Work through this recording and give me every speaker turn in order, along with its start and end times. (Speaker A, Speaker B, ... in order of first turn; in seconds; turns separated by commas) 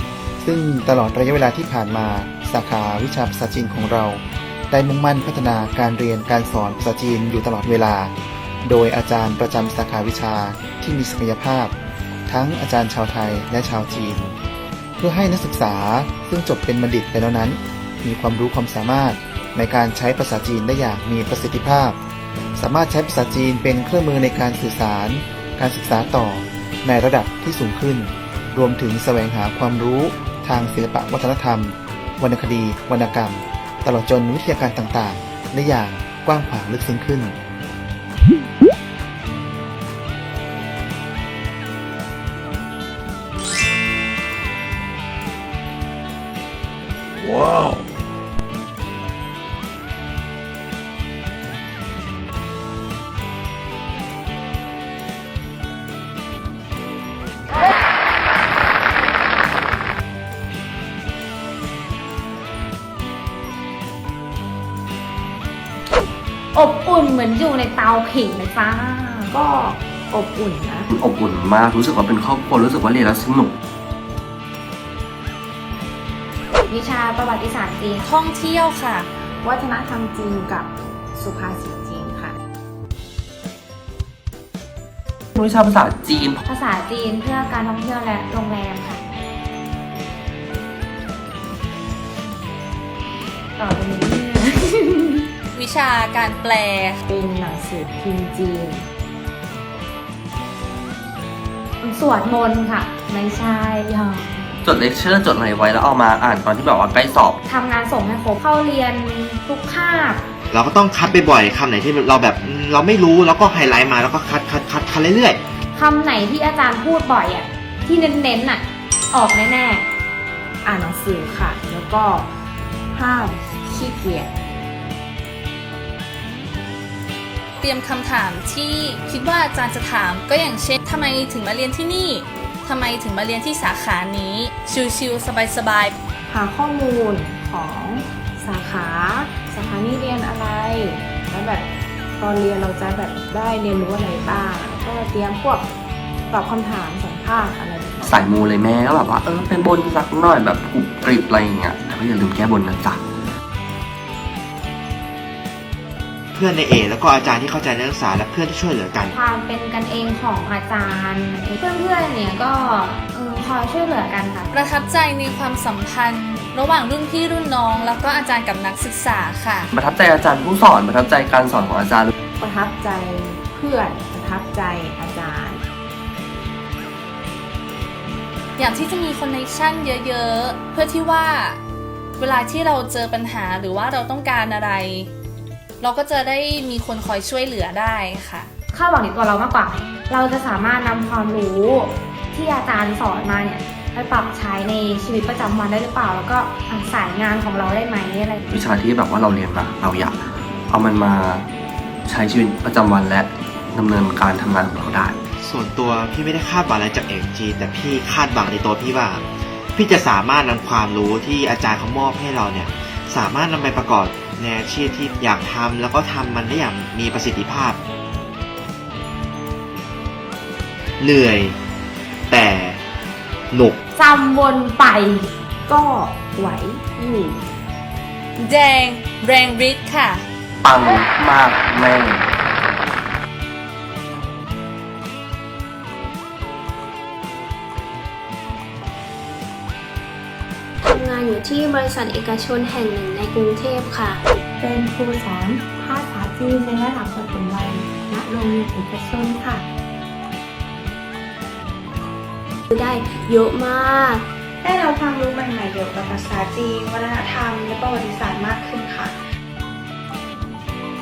Speaker A: 0.4-8.1, Speaker A: 8.6-11.7, Speaker A: 12.3-14.3, Speaker A: 15.0-22.0, Speaker A: 22.6-37.4, Speaker B: 66.5-69.3, Speaker C: 69.3-70.9, Speaker D: 70.9-73.5, Speaker B: 76.7-78.0, Speaker E: 78.0-79.1, Speaker C: 79.4-82.3, Speaker D: 85.3-86.4, Speaker B: 86.5-89.0, Speaker B: 93.6-95.2, Speaker E: 95.5-97.0, Speaker C: 97.1-98.8, Speaker B: 101.8-104.4, Speaker D: 104.6-107.4, Speaker B: 107.4-110.2, Speaker F: 110.5-115.4, Speaker B: 115.7-119.8, Speaker C: 120.6-122.3, Speaker C: 122.9-124.3, Speaker E: 127.6-135.9, Speaker C: 136.3-145.7, Speaker C: 146.3-148.2, Speaker D: 148.0-153.0, Speaker F: 156.3-159.1, Speaker B: 159.1-164.5, Speaker E: 164.5-169.7, Speaker D: 169.7-172.1, Speaker C: 172.4-175.6, Speaker E: 178.6-181.6, Speaker E: 182.2-185.1, Speaker E: 185.8-188.5, Speaker B: 188.7-198.4, Speaker D: 198.5-200.2, Speaker D: 200.7-201.5, Speaker D: 202.1-205.2, Speaker F: 205.4-209.2, Speaker F: 209.7-217.8, Speaker F: 221.0-221.6, Speaker F: 222.3-222.8, Speaker F: 223.5-223.8, Speaker B: 223.9-225.2, Speaker C: 225.7-227.4, Speaker E: 228.4-230.2, Speaker D: 230.6-232.2, Speaker G: 240.8-244.2, Speaker H: 244.6-249.7, Speaker G: 252.7-254.2, Speaker I: 254.6-259.2